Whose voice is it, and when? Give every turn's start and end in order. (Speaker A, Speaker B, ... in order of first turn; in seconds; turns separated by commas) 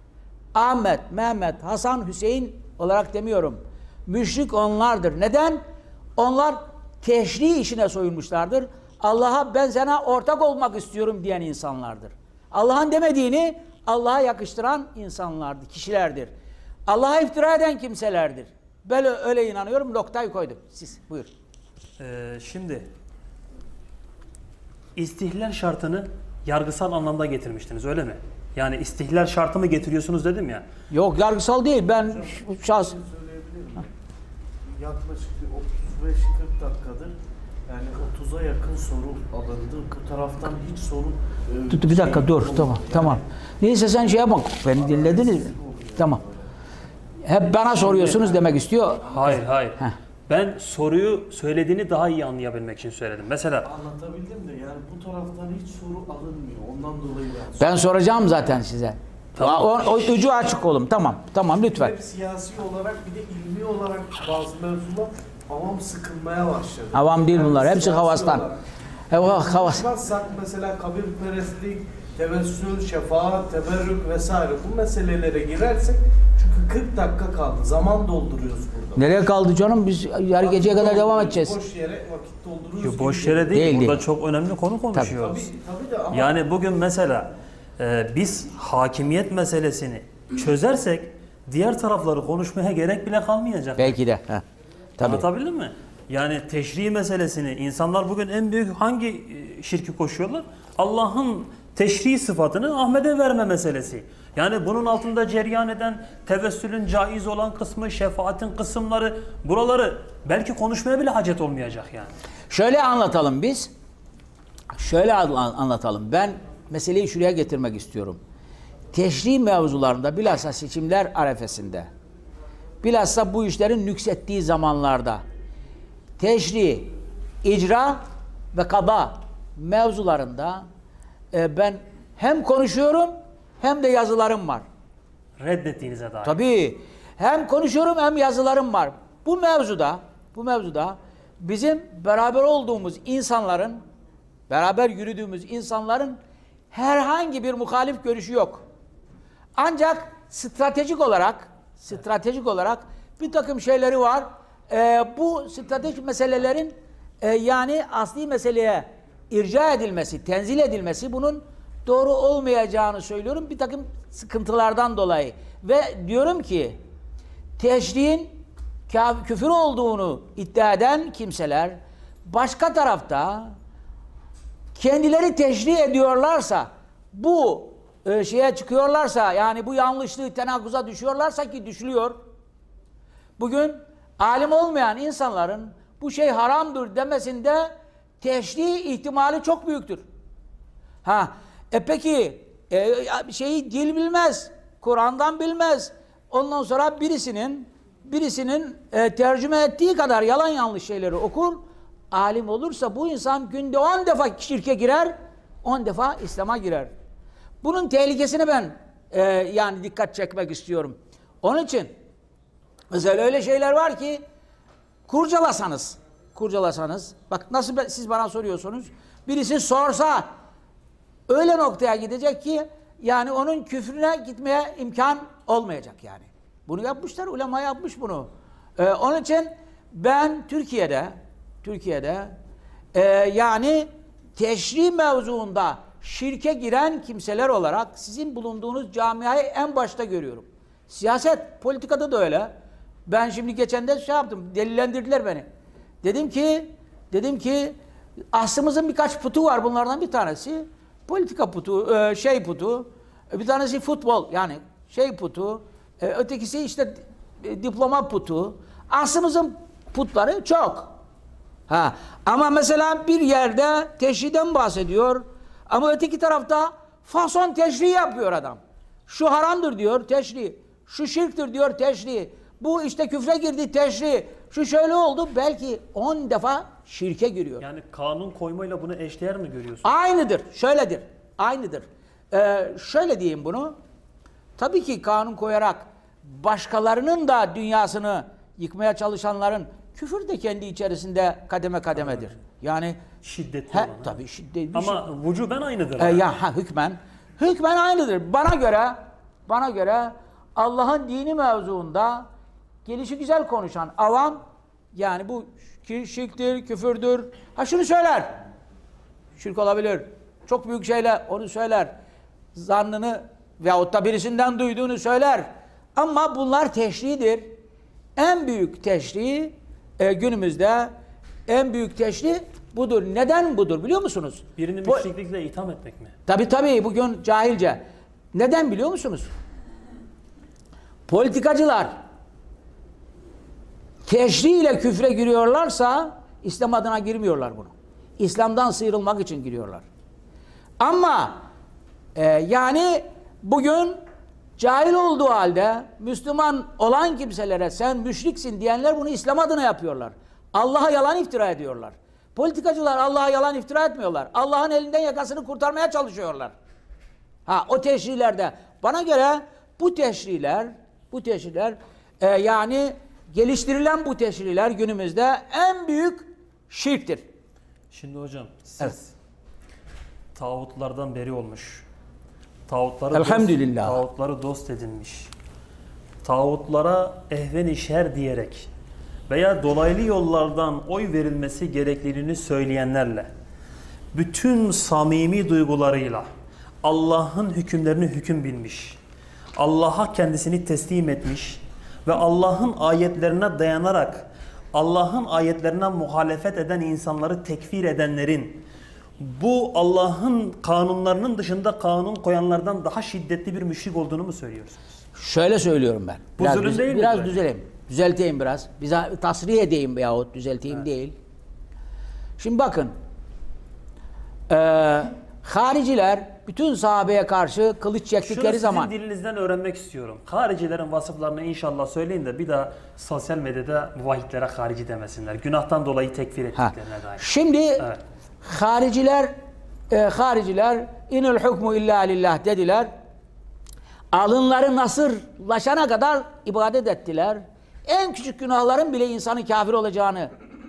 Speaker A: 0.5-5.6, Speaker A: 6.2-16.3, Speaker A: 16.9-21.3, Speaker B: 22.0-22.9, Speaker B: 25.0-30.6, Speaker A: 30.9-33.0, Speaker C: 32.1-33.9, Speaker C: 34.8-37.1, Speaker C: 37.7-43.2, Speaker A: 41.7-46.2, Speaker C: 44.8-46.3, Speaker A: 47.2-49.0, Speaker C: 47.9-48.5, Speaker B: 49.1-53.7, Speaker C: 53.6-57.9, Speaker A: 57.6-62.0, Speaker B: 59.4-60.3, Speaker C: 61.7-68.6, Speaker A: 66.9-68.5, Speaker A: 69.1-69.9, Speaker C: 69.2-79.0, Speaker A: 79.0-81.6, Speaker C: 80.4-84.0, Speaker B: 82.8-85.5, Speaker A: 83.5-84.0, Speaker C: 85.2-86.4, Speaker B: 86.1-94.0, Speaker A: 93.8-94.4, Speaker A: 95.0-95.2, Speaker B: 95.0-112.1, Speaker A: 112.5-113.7, Speaker A: 114.8-118.2, Speaker A: 118.9-121.9, Speaker A: 122.8-125.2, Speaker A: 126.2-130.7, Speaker A: 131.3-134.6, Speaker B: 135.4-136.4, Speaker A: 136.2-143.8, Speaker A: 144.5-146.2, Speaker A: 146.7-148.6, Speaker A: 149.6-166.8, Speaker A: 167.6-173.6, Speaker A: 174.8-182.2, Speaker A: 183.4-190.0, Speaker A: 191.0-206.9, Speaker A: 207.6-211.9, Speaker A: 212.9-214.2, Speaker A: 215.1-220.3, Speaker A: 221.3-232.4, Speaker A: 232.9-242.5, Speaker A: 243.1-245.5, Speaker A: 246.0-247.8, Speaker A: 248.3-260.9, Speaker A: 261.7-277.6, Speaker B: 277.6-279.9, Speaker A: 279.8-283.8, Speaker A: 284.6-293.0, Speaker B: 293.2-294.2, Speaker A: 293.7-295.0, Speaker B: 294.7-296.3, Speaker A: 296.0-302.3, Speaker A: 302.9-308.4, Speaker A: 309.4-312.0, Speaker A: 312.6-317.5, Speaker A: 318.2-320.9, Speaker A: 321.5-325.1, Speaker B: 324.6-326.1, Speaker A: 326.3-329.3, Speaker A: 331.1-332.0, Speaker A: 334.1-339.9, Speaker A: 340.8-341.4, Speaker A: 342.2-344.0, Speaker A: 344.6-356.5, Speaker A: 357.5-367.2, Speaker B: 367.9-369.1, Speaker B: 370.4-371.9, Speaker B: 372.7-375.3, Speaker A: 373.1-374.0, Speaker B: 376.2-378.7, Speaker B: 379.3-383.3, Speaker B: 384.1-386.3, Speaker B: 386.8-389.0, Speaker B: 389.6-398.6, Speaker B: 399.2-404.8, Speaker A: 405.1-411.2, Speaker B: 406.4-407.4, Speaker A: 412.4-412.9, Speaker A: 414.5-418.9, Speaker B: 418.2-427.2, Speaker A: 426.6-427.9, Speaker A: 428.4-429.3, Speaker A: 429.9-432.9, Speaker A: 434.1-440.3